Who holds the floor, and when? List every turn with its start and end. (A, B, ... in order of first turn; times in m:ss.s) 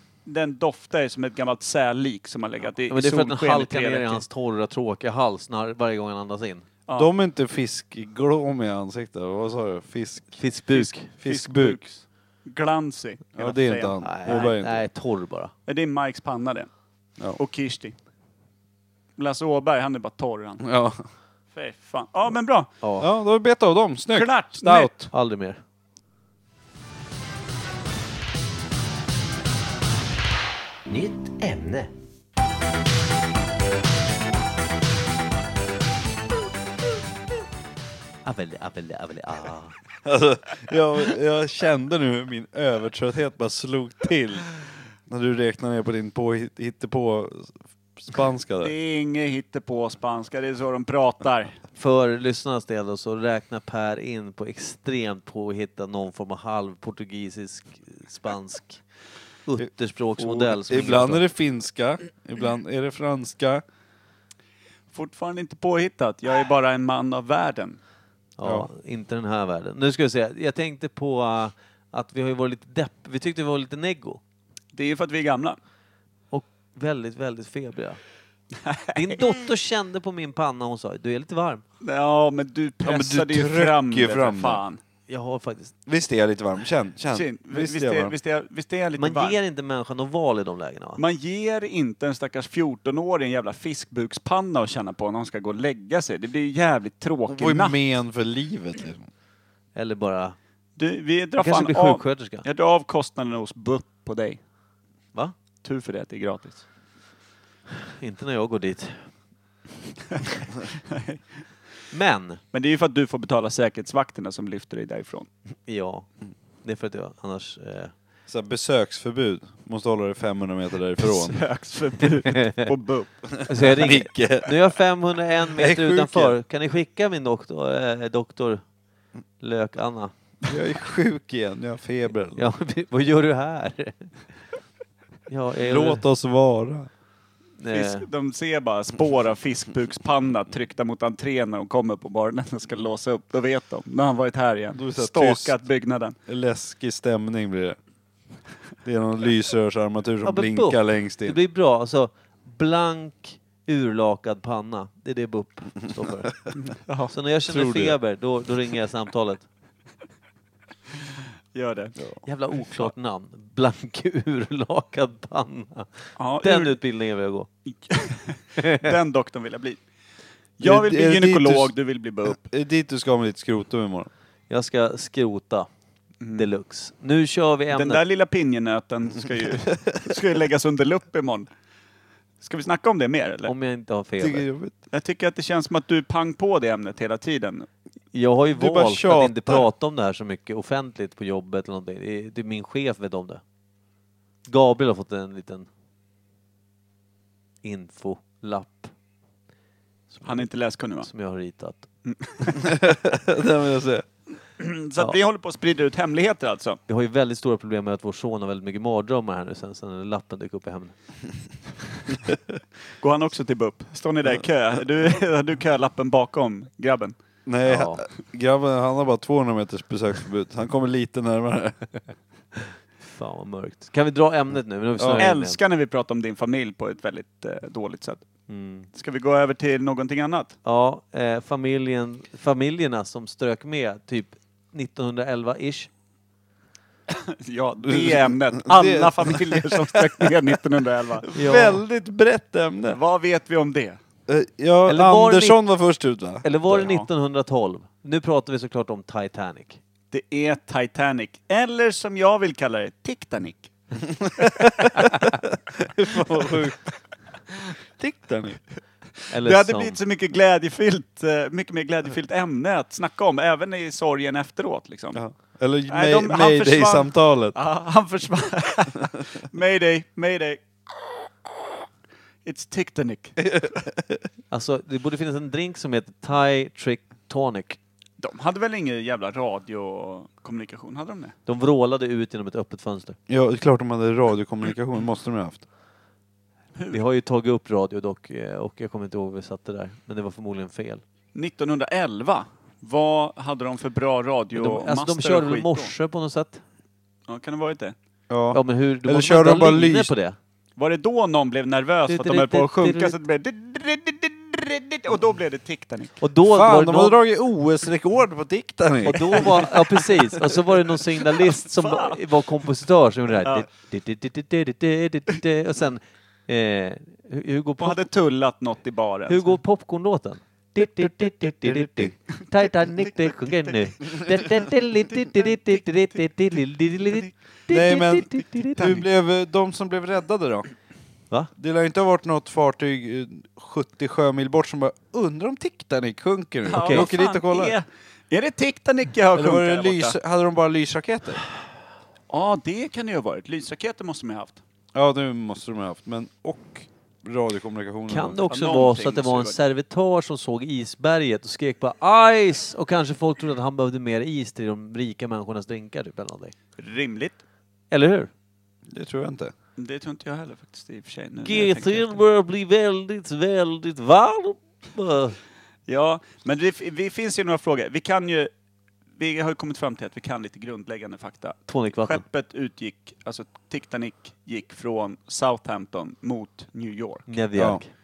0:00.2-0:04.2 A
0:02.9-0:06.6 B
0:06.9-0:10.4 C
0:10.4-0:11.1 B
0:10.7-0:14.5 A
0:11.1-0:11.8 C
0:13.3-0:14.8 C
0:14.0-0:15.5 B
0:15.6-0:16.7 A
0:17.3-0:17.9 A
0:19.2-0:20.7 A
0:20.6-0:21.0 C
0:21.5-0:22.7 A
0:22.8-0:23.1 B
0:23.0-0:25.1 C
0:24.1-0:25.1 A
0:25.1-0:25.6 B
0:30.9-0:31.9 B
0:38.2-0:39.7 B
0:40.0-0:44.5 C
0:45.0-0:48.7 C
0:48.6-0:51.6 A
0:51.8-0:58.8 B
0:59.4-1:01.2 B
0:59.6-1:03.6 C
1:04.9-1:07.8 A
1:08.4-1:14.2 B
1:14.7-1:15.6 A
1:16.3-1:18.0 B
1:18.6-1:19.2 A
1:18.9-1:21.6 B
1:21.8-1:24.8 A
1:22.8-1:24.6 C
1:25.1-1:25.7 B
1:25.8-1:28.1 C
1:27.1-1:29.4 A
1:29.0-1:31.0 B
1:31.0-1:37.8 A
1:37.3-1:39.1 C
1:39.7-1:40.4 B
1:40.8-1:44.4 A
1:41.4-1:42.4 B
1:45.6-1:46.6 A
1:48.0-1:49.0 B
1:50.1-1:51.2 A
1:51.9-1:52.4 B
1:52.5-1:55.3 A
1:55.7-1:56.1 B
1:56.6-1:57.9 B
1:58.3-2:01.4 C
2:01.0-2:03.1 A
2:02.2-2:02.7 B
2:03.4-2:04.7 C
2:03.5-2:08.6 B
2:05.5-2:06.4 C
2:09.4-2:10.1 B
2:10.5-2:12.5 C
2:12.3-2:14.1 B
2:15.3-2:16.0 B
2:15.6-2:16.9 C
2:17.6-2:18.1 B
2:17.7-2:26.2 A
2:24.7-2:25.5 C
2:26.3-2:27.8 C
2:28.8-2:31.4 C
2:30.2-2:36.3 B
2:36.5-2:37.1 A
2:37.1-2:39.4 B
2:37.5-2:38.0 C
2:41.5-2:42.0 A
2:42.2-2:47.5 B
2:46.2-2:46.8 A
2:47.7-2:49.8 A
2:48.6-2:48.9 B
2:50.6-2:52.4 A
2:50.6-2:51.7 C
2:52.2-2:54.1 C
2:54.5-2:55.7 B
2:56.2-2:56.5 A
2:56.3-2:58.0 B
2:57.7-3:01.5 A
3:02.4-3:03.5 A
3:03.4-3:04.4 B
3:04.2-3:04.8 C
3:04.9-3:07.7 A
3:08.1-3:13.4 B
3:08.5-3:09.6 C
3:14.5-3:15.7 B
3:17.6-3:18.9 B
3:20.1-3:20.5 B
3:20.2-3:21.1 A
3:21.0-3:21.9 B
3:22.0-3:22.7 A
3:22.5-3:24.0 C
3:24.6-3:26.8 A
3:26.9-3:30.9 B
3:33.0-3:37.1 A
3:37.4-3:41.8 C
3:37.6-3:38.0 B
3:43.0-3:45.6 B
3:45.0-3:45.3 C
3:45.2-3:48.2 A
3:48.5-3:48.9 B
3:48.9-3:50.6 A
3:50.6-3:55.9 B
3:57.1-4:01.3 A
3:57.8-4:00.4 C
4:01.2-4:03.0 C
4:01.3-4:01.8 B
4:02.9-4:04.0 A
4:04.3-4:06.9 C
4:04.9-4:05.6 B
4:06.4-4:09.8 B
4:06.8-4:07.1 A
4:10.1-4:13.7 A
4:14.3-4:16.8 C
4:14.4-4:15.1 A
4:18.0-4:18.6 C
4:19.3-4:20.0 B
4:19.3-4:25.2 A
4:25.1-4:27.6 C
4:25.9-4:30.6 A
4:32.4-4:33.5 A
4:33.5-4:34.2 C
4:34.5-4:37.8 B
4:38.2-4:41.3 A
4:41.4-4:43.2 B
4:43.3-4:45.6 C
4:46.7-4:47.0 A
4:46.9-4:51.0 B
4:51.3-4:55.9 A
4:54.5-4:56.6 B
4:57.3-4:57.9 A
4:58.3-5:00.1 C
4:58.5-5:00.4 B
5:00.8-5:06.2 A
5:02.1-5:03.2 B
5:06.2-5:07.2 B
5:06.5-5:09.6 C
5:09.0-5:18.0 B
5:09.3-5:10.0 A
5:11.2-5:12.4 A
5:17.8-5:19.6 A
5:19.3-5:28.8 B
5:27.7-5:30.7 C
5:28.8-5:29.0 A
5:31.5-5:37.8 C
5:36.6-5:40.2 A
5:36.7-5:37.1 B
5:39.3-5:41.4 C
5:42.3-5:44.6 A
5:44.9-5:48.4 C
5:48.1-5:56.5 B
5:48.5-5:49.6 A
5:56.8-5:57.4 A
5:57.9-5:58.3 B
5:58.9-5:59.5 C
5:59.8-6:02.2 A
6:01.4-6:05.4 B
6:05.9-6:08.5 A
6:09.2-6:17.3 A
6:11.7-6:12.2 B
6:17.3-6:17.9 B
6:17.6-6:17.8 C